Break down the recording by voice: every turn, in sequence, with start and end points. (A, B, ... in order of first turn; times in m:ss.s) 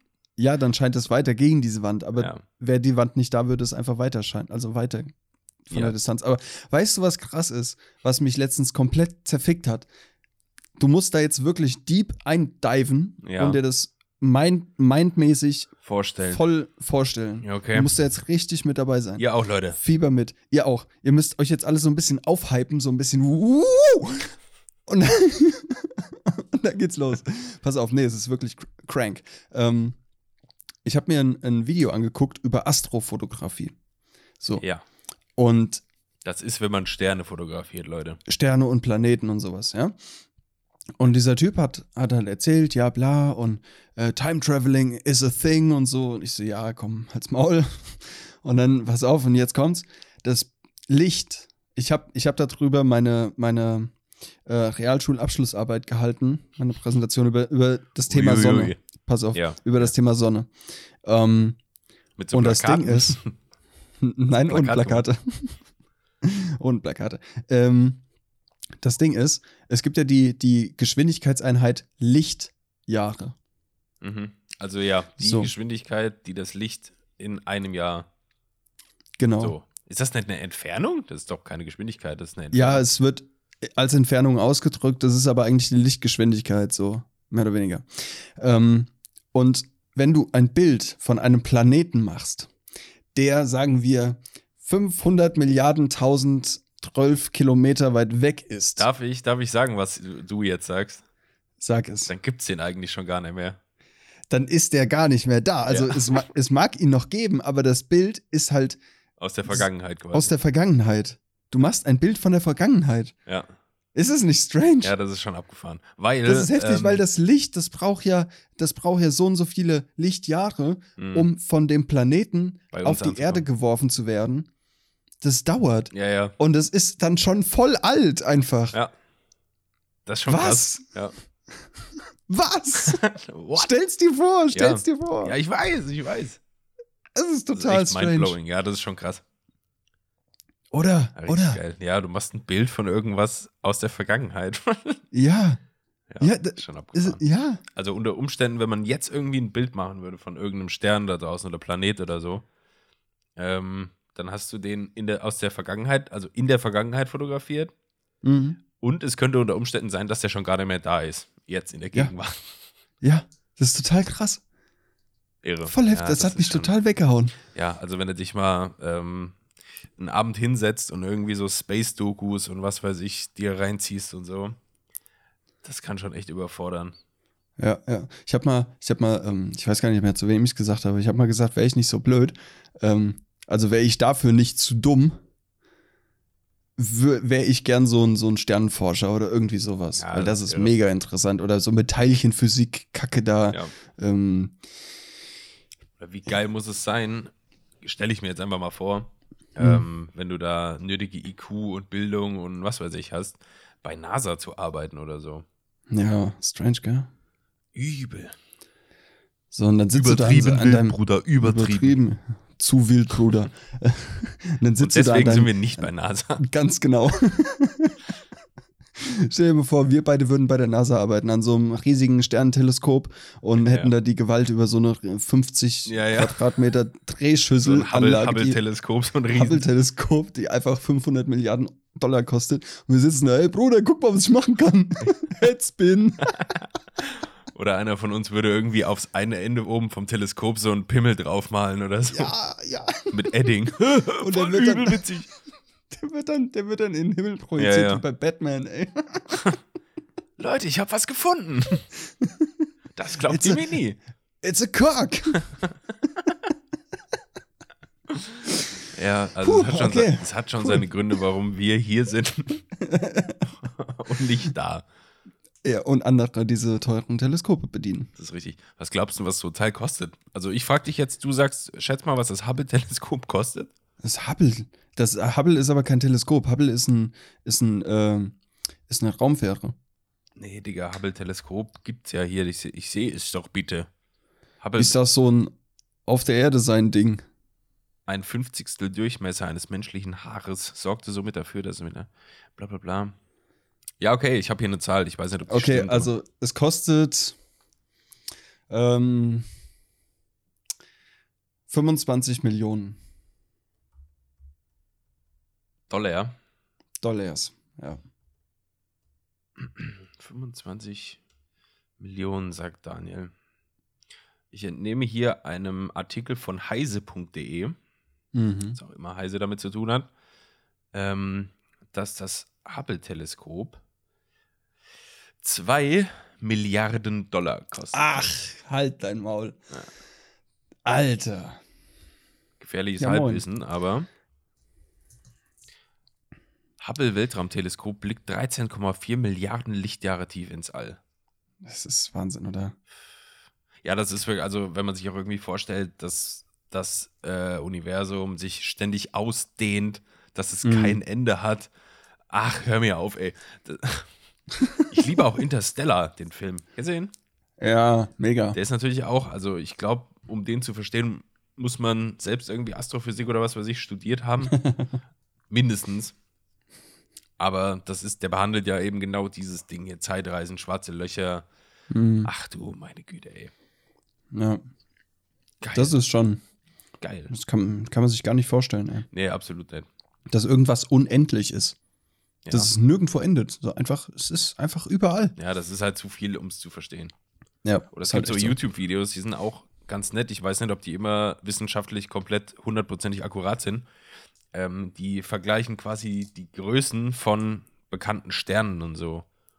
0:00.4-0:05.1 A
0:02.2-0:02.4 B
0:05.7-0:09.9 A
0:10.8-0:15.7 A
0:13.2-0:13.6 B
0:15.8-0:16.4 B
0:16.3-0:24.3 A
0:17.4-0:17.9 B
0:19.2-0:19.8 B
0:24.9-0:30.0 A
0:30.8-0:33.7 A
0:35.4-0:35.8 A
0:36.2-0:38.2 B
0:38.3-0:40.0 A
0:41.0-0:53.9 A
0:54.4-1:00.5 A
0:58.1-0:58.8 B
0:59.3-0:59.9 B
1:01.0-1:01.6 A
1:02.2-1:03.3 B
1:02.3-1:03.2 A
1:04.0-1:05.6 A
1:04.4-1:05.0 B
1:06.2-1:08.0 A
1:08.8-1:13.4 A
1:14.0-1:18.1 B
1:15.2-1:15.5 A
1:19.2-1:19.5 A
1:19.4-1:22.8 B
1:22.5-1:32.5 A
1:33.1-1:38.9 A
1:38.8-1:41.0 B
1:41.6-1:42.1 A
1:42.0-1:43.6 B
1:44.3-1:48.8 A
1:45.7-1:46.2 B
1:49.2-1:50.3 B
1:49.5-1:53.1 A
1:53.9-1:54.9 A
1:54.8-1:57.0 B
1:56.2-2:04.5 A
2:01.0-2:01.3 B
2:02.7-2:03.4 B
2:05.2-2:08.8 A
2:05.9-2:06.3 B
2:10.0-2:11.1 B
2:10.3-2:10.8 A
2:12.3-2:13.0 A
2:12.8-2:13.7 B
2:13.5-2:15.3 A
2:14.5-2:16.4 B
2:17.1-2:18.4 A
2:17.5-2:19.2 B
2:20.7-2:21.6 A
2:21.2-2:25.0 B
2:25.1-2:25.6 A
2:26.1-2:27.2 B
2:26.2-2:27.6 A
2:27.7-2:32.4 B
2:33.4-2:37.7 B
2:38.2-2:38.6 A
2:38.8-2:42.5 B
2:43.0-2:44.4 A
2:45.4-2:46.7 B
2:45.7-2:47.3 A
2:47.5-2:49.4 B
2:50.0-2:54.6 B
2:55.6-2:56.9 B
2:57.6-3:05.2 A
3:06.8-3:14.6 A
3:10.0-3:10.7 B
3:16.0-3:25.4 B
3:19.6-3:19.8 A
3:25.9-3:27.1 A
3:27.7-3:28.3 B
3:29.5-3:35.8 A
3:29.9-3:32.0 B
3:34.8-3:36.4 B
3:36.4-3:38.0 A
3:39.0-3:48.6 A
3:43.6-3:43.9 B
3:45.8-3:46.4 B
3:47.6-3:49.6 B
3:49.3-3:56.3 A
3:56.2-4:02.3 B
4:02.1-4:03.1 A
4:03.1-4:05.3 B
4:04.2-4:05.3 A
4:05.9-4:09.3 A
4:07.6-4:08.0 B
4:09.3-4:09.6 B
4:10.4-4:11.9 B
4:12.2-4:12.5 A
4:13.0-4:14.0 B
4:13.2-4:13.7 A
4:14.4-4:15.4 A
4:18.9-4:22.6 B
4:19.4-4:20.8 A
4:22.8-4:23.4 A
4:23.6-4:24.8 B
4:25.6-4:28.1 A
4:28.2-4:33.7 B
4:34.0-4:38.4 A
4:38.9-4:39.8 A
4:40.4-4:43.9 B
4:44.6-4:45.0 B
4:44.8-4:45.5 A
4:46.0-4:47.2 A
4:48.1-4:53.2 B
4:54.0-4:56.1 B
4:55.5-4:57.4 A
4:58.7-4:59.5 A
5:01.7-5:03.0 A
5:05.9-5:06.4 B
5:07.0-5:08.0 A
5:09.6-5:11.2 B
5:12.0-5:13.3 B
5:14.5-5:17.8 B
5:18.3-5:18.8 A
5:18.8-5:20.1 B
5:20.9-5:23.8 B
5:25.4-5:28.2 B
5:27.9-5:29.6 A
5:30.8-5:31.6 A
5:32.6-5:34.1 B
5:33.0-5:33.4 A
5:36.8-5:41.0 B
5:41.6-5:42.7 A
5:43.8-5:51.7 B
5:50.6-5:51.0 A
5:52.3-5:54.1 B
5:54.9-5:57.1 B
5:57.6-5:58.6 A
5:58.5-6:04.6 B
6:04.5-6:04.9 A
6:05.5-6:06.1 B
6:07.4-6:11.4 B
6:11.9-6:12.3 A
6:12.2-6:13.5 B
6:14.3-6:14.6 A
6:15.6-6:16.0 B
6:15.7-6:16.4 A
6:17.0-6:17.3 B
6:17.3-6:19.1 A
6:19.1-6:19.9 B
6:20.3-6:21.8 A
6:22.5-6:25.4 A
6:25.4-6:27.1 B
6:27.6-6:28.6 A
6:27.9-6:33.8 B
6:34.5-6:39.2 B